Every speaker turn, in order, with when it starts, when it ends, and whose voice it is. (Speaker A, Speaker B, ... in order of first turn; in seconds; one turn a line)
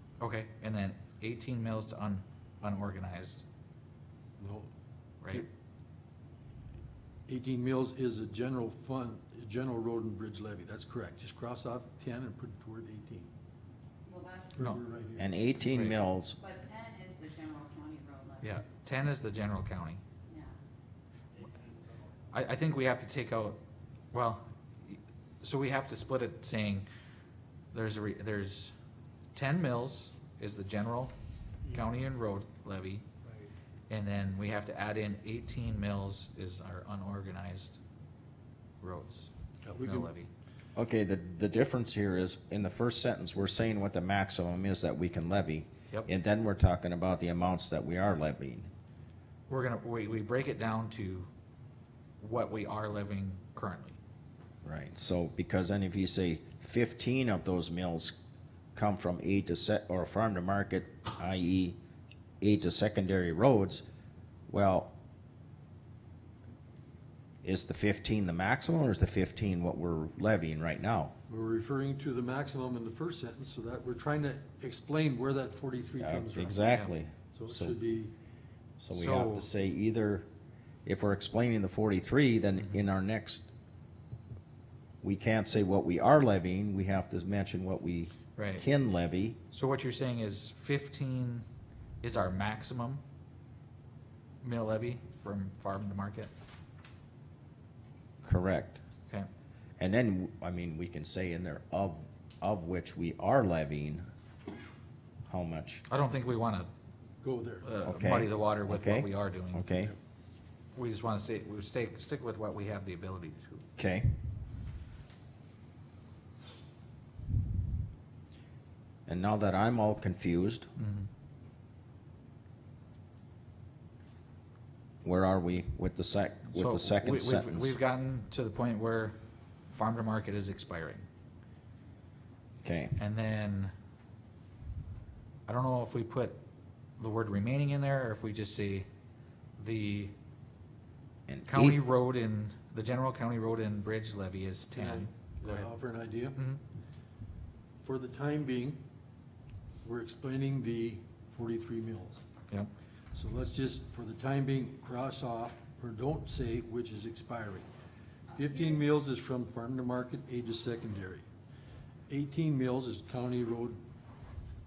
Speaker A: 0.2-3.4
Speaker B: 4.4-4.7
Speaker B: 7.3-13.3
Speaker C: 14.0-14.7
Speaker B: 14.6-15.3
Speaker D: 15.2-16.4
Speaker A: 15.7-15.9
Speaker C: 16.4-18.6
Speaker A: 18.4-20.0
Speaker C: 20.3-20.6
Speaker A: 22.3-23.6
Speaker A: 24.1-26.9
Speaker A: 27.7-28.7
Speaker A: 29.3-31.1
Speaker A: 31.7-33.0
Speaker A: 33.9-37.8
Speaker A: 38.8-40.3
Speaker B: 39.6-40.1
Speaker D: 40.7-48.7
Speaker A: 49.5-51.3
Speaker A: 52.2-54.0
Speaker D: 54.6-58.1
Speaker D: 58.7-61.8
Speaker D: 62.4-63.8
Speaker D: 64.5-64.9
Speaker D: 67.4-71.1
Speaker B: 71.3-76.7
Speaker D: 76.0-77.8
Speaker B: 77.3-78.1
Speaker D: 78.8-80.3
Speaker A: 78.9-79.5
Speaker D: 80.8-83.5
Speaker D: 85.0-89.4
Speaker A: 88.3-88.7
Speaker A: 89.5-91.4
Speaker A: 92.0-93.0
Speaker A: 94.4-96.3
Speaker D: 98.2-98.8
Speaker D: 99.8-104.1
Speaker D: 105.2-105.8
Speaker A: 105.9-106.7
Speaker B: 107.2-107.7
Speaker A: 107.6-109.6
Speaker D: 107.8-109.9
Speaker A: 110.7-113.7
Speaker D: 113.8-114.2
Speaker D: 119.1-120.7
Speaker A: 120.8-121.1
Speaker D: 125.0-127.8
Speaker A: 126.5-129.2
Speaker A: 129.7-131.1
Speaker D: 132.6-133.0
Speaker A: 133.0-133.7
Speaker A: 135.5-136.4
Speaker A: 137.0-138.9
Speaker A: 139.6-140.1
Speaker D: 141.3-141.8
Speaker A: 141.5-145.7
Speaker B: 144.7-146.4
Speaker B: 147.8-148.8
Speaker B: 149.8-152.2
Speaker B: 153.1-157.7
Speaker C: 158.3-158.8
Speaker B: 158.3-161.2
Speaker B: 162.1-163.8